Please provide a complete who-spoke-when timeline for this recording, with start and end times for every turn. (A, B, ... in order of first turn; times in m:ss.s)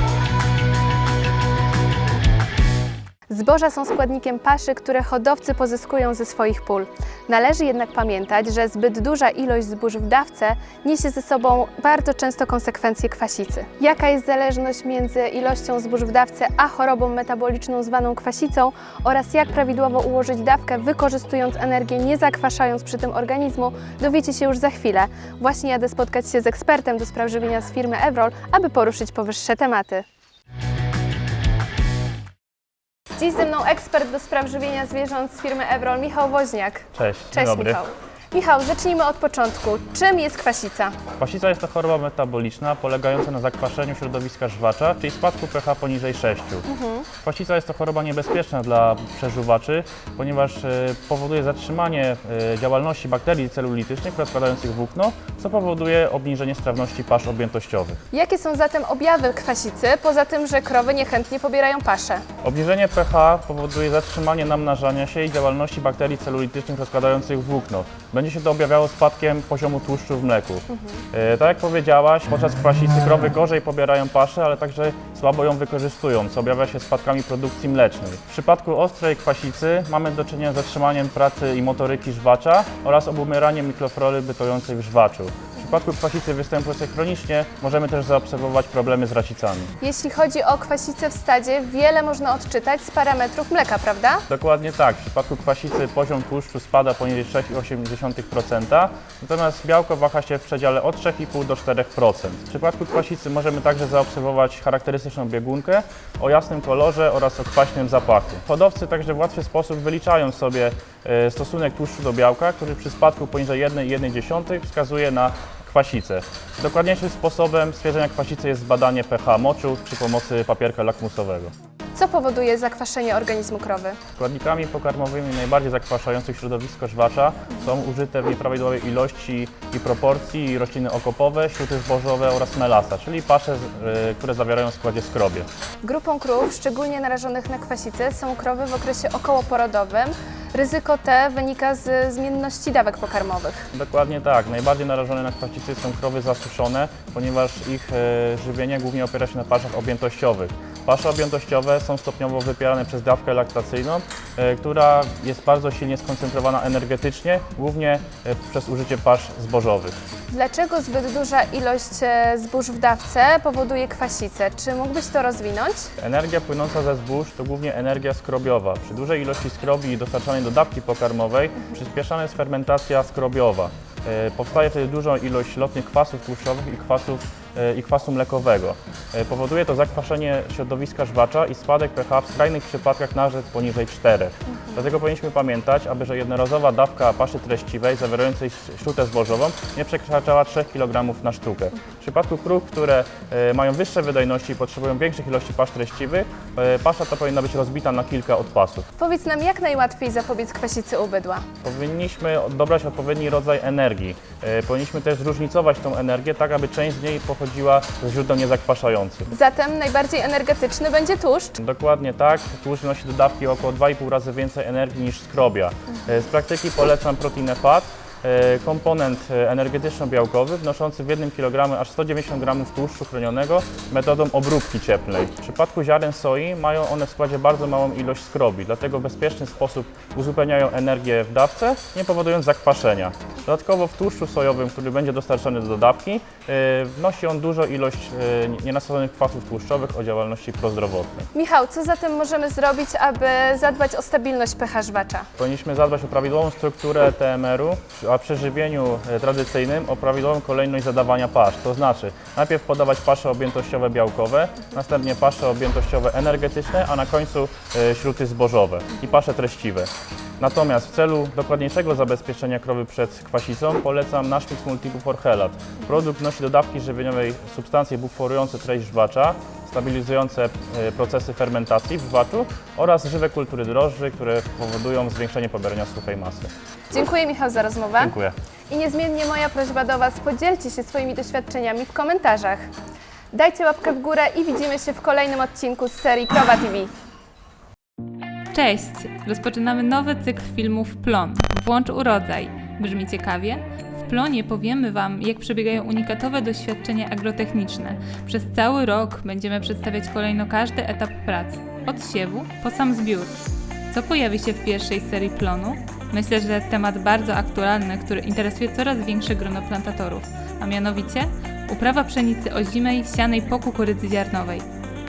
0:03.3-0:30.0 A
0:33.2-0:41.0 A
0:37.0-0:37.8 B
0:41.2-0:46.7 B
0:46.7-0:47.1 A
0:47.2-0:58.0 B
0:58.1-1:02.2 A
1:02.4-1:29.7 B
1:10.7-1:11.0 A
1:29.8-1:34.3 A
1:34.3-2:01.5 B
2:02.0-2:04.0 A
2:04.2-2:15.5 B
2:15.8-2:23.7 A
2:23.7-2:40.0 B
2:40.3-2:45.9 A
2:46.0-3:18.9 B
3:19.0-3:21.5 A
3:21.6-3:29.3 B
3:29.3-3:31.6 A
3:31.6-4:01.3 B
4:01.3-4:05.3 A
4:05.4-4:36.5 B
4:36.9-4:38.2 A
4:38.0-4:38.3 B
4:38.7-4:42.7 A
4:43.3-4:46.9 A
4:48.5-5:03.4 C
5:03.9-5:14.7 C